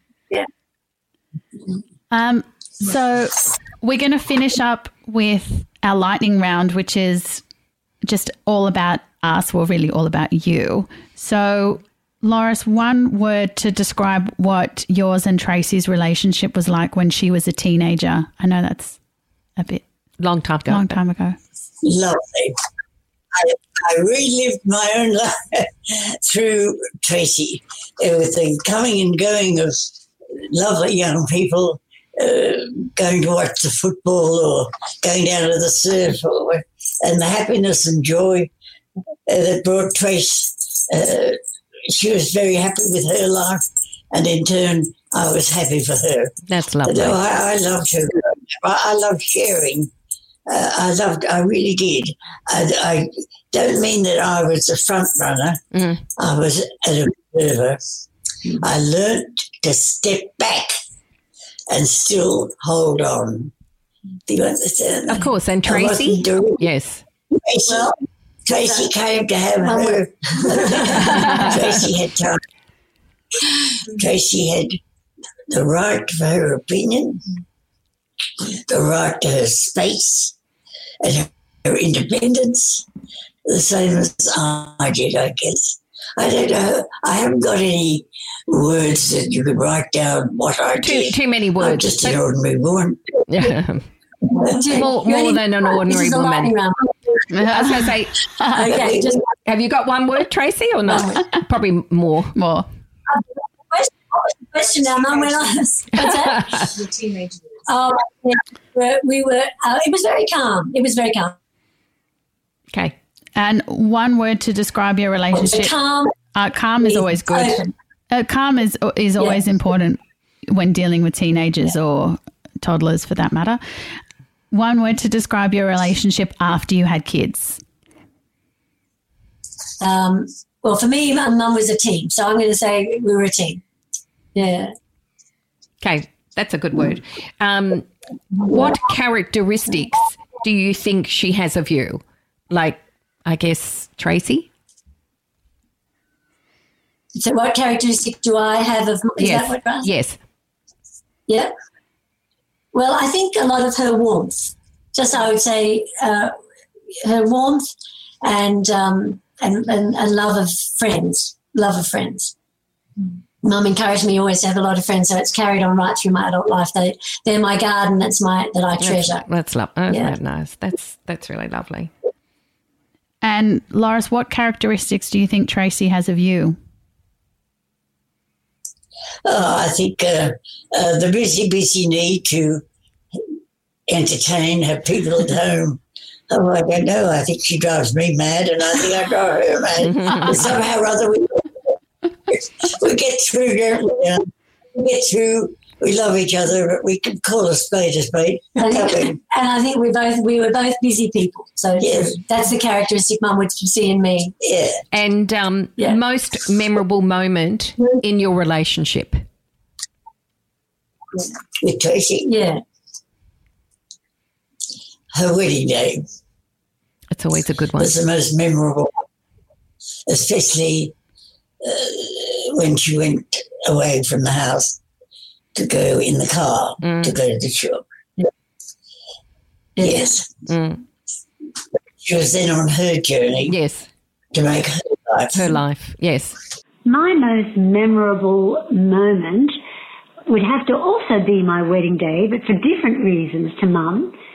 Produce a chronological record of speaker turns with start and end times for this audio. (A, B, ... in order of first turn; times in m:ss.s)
0:02.1-0:07.4 A
0:08.0-0:19.0 A
0:19.6-0:19.8 A
0:20.2-0:21.0 B
0:20.7-0:21.4 A
0:21.8-0:22.6 C
0:23.3-0:38.5 C
0:39.3-0:49.9 C
0:46.5-0:47.2 B
0:50.5-0:55.6 C
0:55.7-0:56.0 B
0:56.2-0:57.8 C
0:58.6-1:00.8 C
1:01.7-1:03.5 C
1:04.3-1:06.7 C
1:05.1-1:07.0 B
1:07.3-1:12.4 C
1:07.7-1:08.0 D
1:08.5-1:08.9 D
1:09.6-1:11.6 D
1:13.9-1:14.8 C
1:15.5-1:17.2 C
1:18.4-1:20.4 C
1:21.0-1:22.9 C
1:23.5-1:33.5 C
1:30.8-1:32.2 B
1:33.3-1:33.8 B
1:34.4-1:36.8 D
1:34.7-1:36.5 B
1:37.3-1:37.8 A
1:37.4-1:38.2 B
1:38.5-1:39.3 D
1:38.7-1:39.2 C
1:39.5-1:42.4 B
1:40.9-1:41.1 D
1:42.4-1:42.7 A
1:43.1-1:46.5 D
1:44.8-1:47.6 E
1:46.1-1:46.7 B
1:47.7-1:51.4 D
1:53.4-1:55.7 A
1:55.3-1:56.1 D
1:56.3-2:03.6 A
1:56.8-1:57.7 D
2:04.5-2:07.6 A
2:09.8-2:13.6 D
2:14.4-2:14.7 D
2:15.8-2:17.9 B
2:18.4-2:24.5 B
2:27.2-2:29.9 D
2:29.2-2:30.2 B
2:32.7-2:36.3 D
2:37.0-2:37.7 D
2:38.2-2:42.3 D
2:43.4-2:49.2 D
2:48.8-2:51.9 B
2:49.9-2:50.2 D
2:53.2-2:56.6 A
2:59.2-3:02.6 C
3:03.9-3:11.7 C
3:09.8-3:10.5 B
3:12.3-3:19.2 C
3:18.6-3:24.3 D
3:21.8-3:22.2 C
3:24.4-3:24.8 C
3:24.9-3:29.2 B
3:31.6-3:32.3 C
3:32.3-3:32.6 D
3:35.1-3:36.0 C
3:37.1-3:38.0 B
3:37.8-3:39.0 C
3:40.1-3:41.0 C
3:41.6-3:44.8 C
3:45.6-3:47.8 C
3:46.8-3:47.1 B
3:49.8-3:50.2 D
3:49.8-3:50.3 C
3:50.5-3:50.8 B
3:52.0-3:53.6 C
3:53.4-3:53.9 B
3:54.3-3:55.4 C
3:55.3-3:56.4 B
3:56.9-3:59.6 F
4:00.3-4:04.1 F